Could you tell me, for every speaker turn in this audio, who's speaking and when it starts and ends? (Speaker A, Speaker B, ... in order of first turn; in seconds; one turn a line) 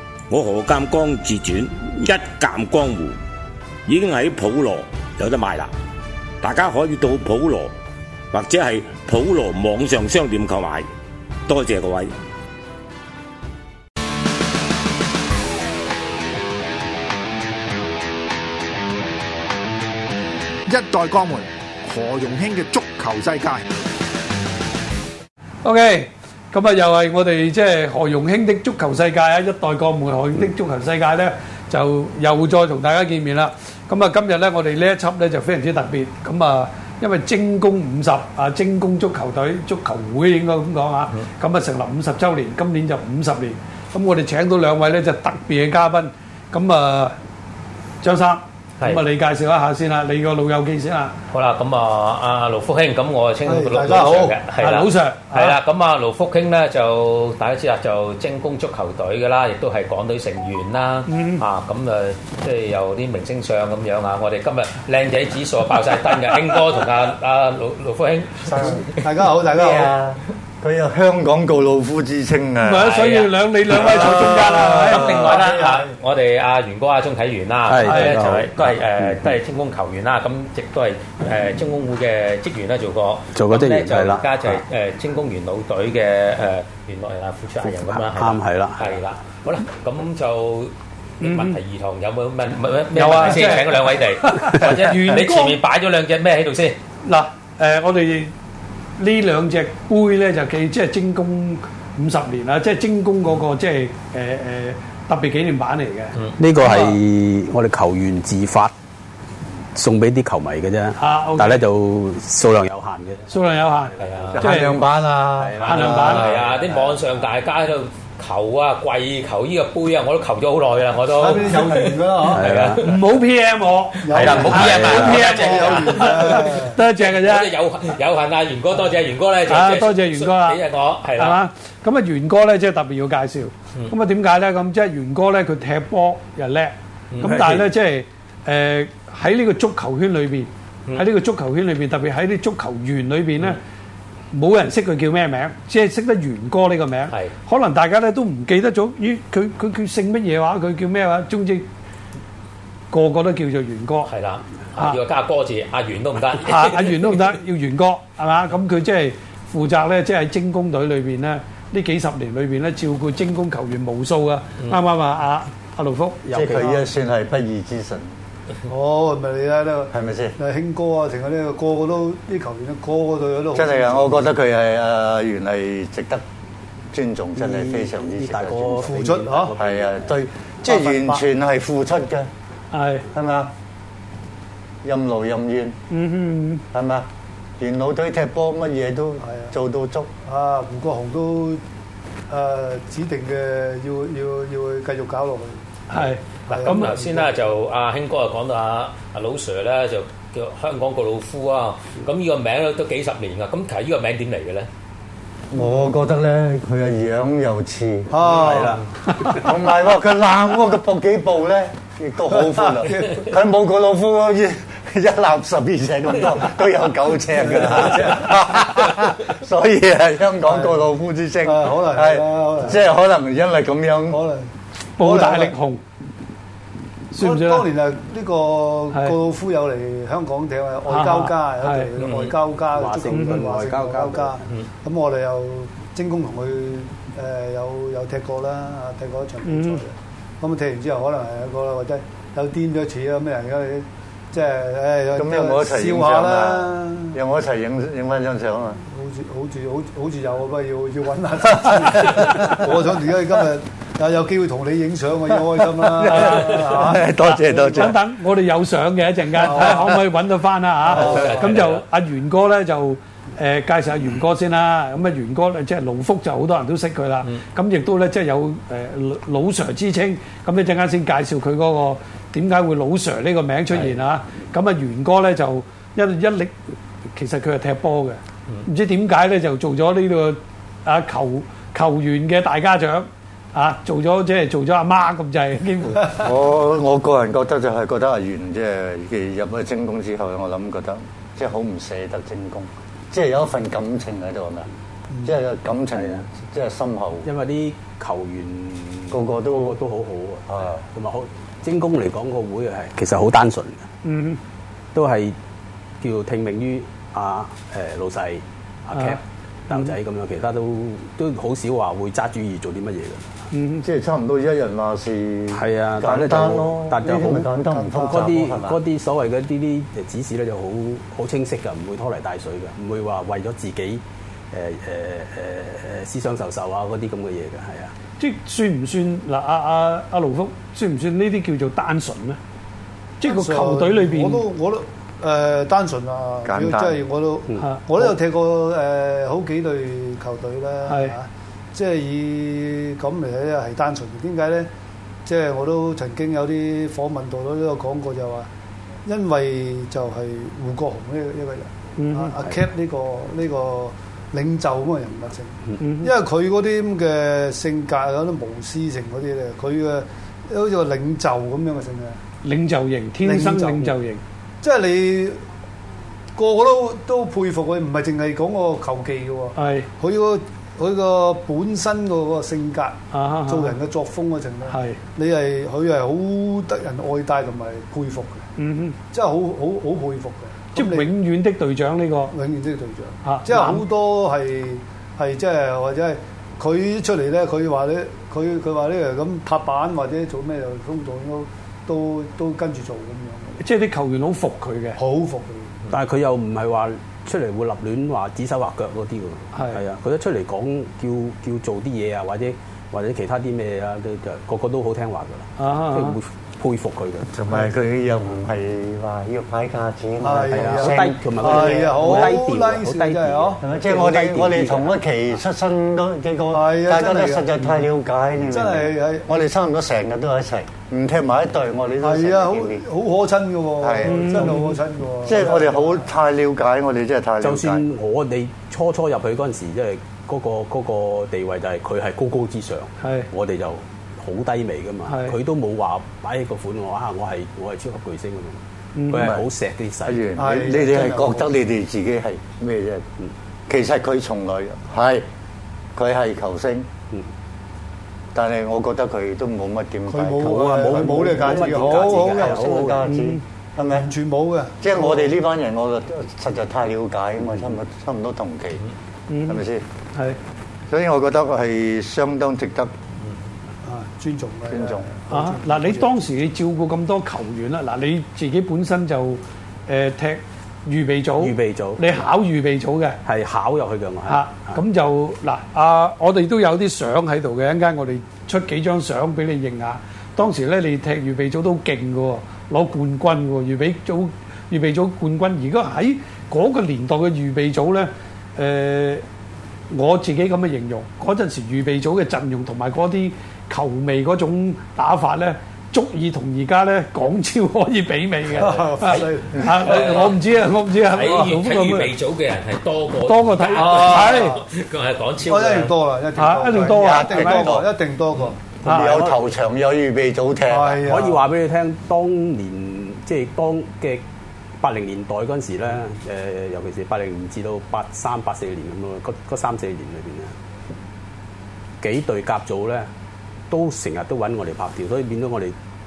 Speaker A: 0.3-3.2
Speaker A: 3.9-5.7
Speaker A: 6.4-7.7
Speaker A: 8.3-10.8
Speaker A: 11.5-12.1
Speaker B: 20.7-23.7
Speaker C: 25.6-47.1
Speaker C: 48.0-51.1
Speaker D: 51.3-69.0
Speaker E: 53.4-54.4
Speaker C: 54.6-55.6
Speaker C: 61.1-61.4
Speaker F: 68.4-68.9
Speaker E: 68.5-69.9
Speaker F: 69.4-72.9
Speaker C: 72.6-75.2
Speaker D: 72.8-96.8
Speaker F: 73.8-75.3
Speaker E: 75.1-75.9
Speaker G: 77.7-79.2
Speaker C: 77.8-78.2
Speaker G: 83.3-84.6
Speaker G: 87.9-88.9
Speaker C: 91.2-91.6
Speaker C: 92.9-95.6
Speaker C: 97.0-98.3
Speaker C: 99.0-107.0
Speaker G: 106.4-108.7
Speaker G: 109.7-113.3
Speaker C: 111.0-111.6
Speaker C: 113.3-114.8
Speaker D: 114.0-114.5
Speaker F: 114.3-116.4
Speaker G: 115.3-117.0
Speaker C: 115.6-116.3
Speaker D: 115.8-123.2
Speaker E: 121.1-122.7
Speaker G: 122.2-122.8
Speaker C: 122.8-127.5
Speaker E: 124.0-126.8
Speaker D: 124.0-131.4
Speaker G: 124.6-125.0
Speaker C: 129.5-130.6
Speaker C: 131.2-143.6
Speaker D: 137.1-137.4
Speaker G: 137.3-137.7
Speaker C: 144.3-151.7
Speaker C: 152.9-154.1
Speaker D: 154.0-157.2
Speaker C: 156.4-166.2
Speaker G: 166.2-166.8
Speaker F: 166.3-168.1
Speaker E: 168.7-174.2
Speaker F: 169.9-170.3
Speaker F: 173.5-176.2
Speaker F: 176.9-178.9
Speaker G: 177.4-180.1
Speaker E: 178.7-179.6
Speaker F: 179.6-182.3
Speaker E: 180.6-181.2
Speaker C: 182.7-183.1
Speaker F: 183.1-183.5
Speaker F: 184.8-185.7
Speaker C: 185.9-186.6
Speaker F: 186.7-187.1
Speaker F: 187.6-190.1
Speaker E: 189.2-189.5
Speaker E: 190.2-191.6
Speaker E: 192.3-197.4
Speaker C: 195.9-196.9
Speaker D: 196.5-204.7
Speaker F: 205.5-208.1
Speaker E: 208.1-208.8
Speaker G: 208.3-208.8
Speaker F: 209.3-224.2
Speaker E: 212.3-213.3
Speaker E: 217.4-218.3
Speaker E: 220.4-220.8
Speaker E: 221.4-222.8
Speaker E: 224.1-225.5
Speaker C: 225.0-225.8
Speaker C: 227.1-227.6
Speaker E: 227.2-247.2
Speaker C: 230.9-231.9
Speaker D: 232.0-232.3
Speaker G: 232.7-234.4
Speaker C: 239.4-239.8
Speaker F: 245.1-248.8
Speaker E: 248.9-257.8
Speaker F: 251.7-252.5
Speaker F: 255.8-258.0
Speaker C: 256.1-276.5
Speaker D: 256.2-256.7
Speaker E: 259.4-259.9
Speaker E: 260.9-261.4
Speaker D: 260.9-261.8
Speaker C: 277.1-286.2
Speaker F: 286.2-294.7
Speaker F: 295.2-297.3
Speaker G: 295.9-296.2
Speaker G: 297.2-303.9
Speaker F: 299.1-299.8
Speaker F: 300.5-300.8
Speaker C: 304.0-304.4
Speaker G: 304.9-305.4
Speaker G: 306.0-313.4
Speaker C: 313.5-313.8
Speaker F: 313.8-318.8
Speaker G: 315.5-317.5
Speaker E: 317.7-318.3
Speaker G: 318.0-327.9
Speaker C: 328.2-332.4
Speaker C: 333.2-334.4
Speaker E: 333.2-344.7
Speaker F: 336.4-337.0
Speaker C: 340.9-341.1
Speaker E: 345.2-348.5
Speaker E: 349.1-362.2
Speaker C: 352.0-352.4
Speaker C: 355.8-356.1
Speaker C: 362.4-364.2
Speaker E: 363.2-363.9
Speaker E: 364.6-365.4
Speaker E: 366.4-378.4
Speaker C: 369.6-369.9
Speaker C: 373.1-373.7
Speaker C: 374.7-375.0
Speaker C: 378.6-378.9
Speaker E: 379.1-381.1
Speaker C: 380.7-382.3
Speaker E: 382.3-393.6
Speaker C: 383.2-383.8
Speaker C: 393.6-395.0
Speaker E: 394.9-395.8
Speaker G: 395.9-407.3
Speaker C: 399.5-399.8
Speaker C: 405.6-406.2
Speaker F: 407.3-411.5
Speaker E: 410.2-413.6
Speaker G: 410.5-415.0
Speaker F: 412.0-412.4
Speaker F: 413.6-422.8
Speaker E: 416.5-417.6
Speaker E: 418.5-419.3
Speaker E: 422.0-426.0
Speaker F: 423.8-424.5
Speaker C: 424.0-424.6
Speaker F: 425.2-427.9
Speaker G: 427.4-440.2
Speaker C: 433.0-433.3
Speaker C: 435.1-435.4
Speaker C: 438.9-439.3
Speaker F: 439.1-439.4
Speaker F: 440.0-443.0
Speaker E: 440.4-441.5
Speaker F: 443.7-445.2
Speaker F: 445.9-446.9
Speaker F: 448.3-454.1
Speaker E: 450.1-452.6
Speaker G: 450.4-453.0
Speaker C: 453.1-453.4
Speaker E: 453.9-455.3
Speaker F: 454.8-458.8
Speaker C: 459.3-459.6
Speaker F: 459.4-459.8
Speaker F: 460.9-462.9
Speaker E: 463.8-466.1
Speaker F: 464.7-465.1
Speaker C: 465.3-473.2
Speaker G: 471.4-472.0
Speaker G: 473.2-474.8
Speaker C: 474.2-489.2
Speaker C: 489.9-502.1
Speaker E: 498.5-500.4
Speaker D: 499.8-500.4
Speaker D: 501.1-505.9
Speaker C: 503.2-504.6
Speaker E: 503.7-504.6
Speaker E: 505.4-508.9
Speaker C: 506.3-507.7
Speaker F: 506.8-507.9
Speaker C: 508.8-509.2
Speaker F: 508.8-511.0
Speaker G: 508.9-509.4
Speaker E: 510.7-511.4
Speaker G: 511.0-514.2
Speaker G: 514.8-520.5
Speaker G: 522.0-523.1
Speaker G: 523.7-525.7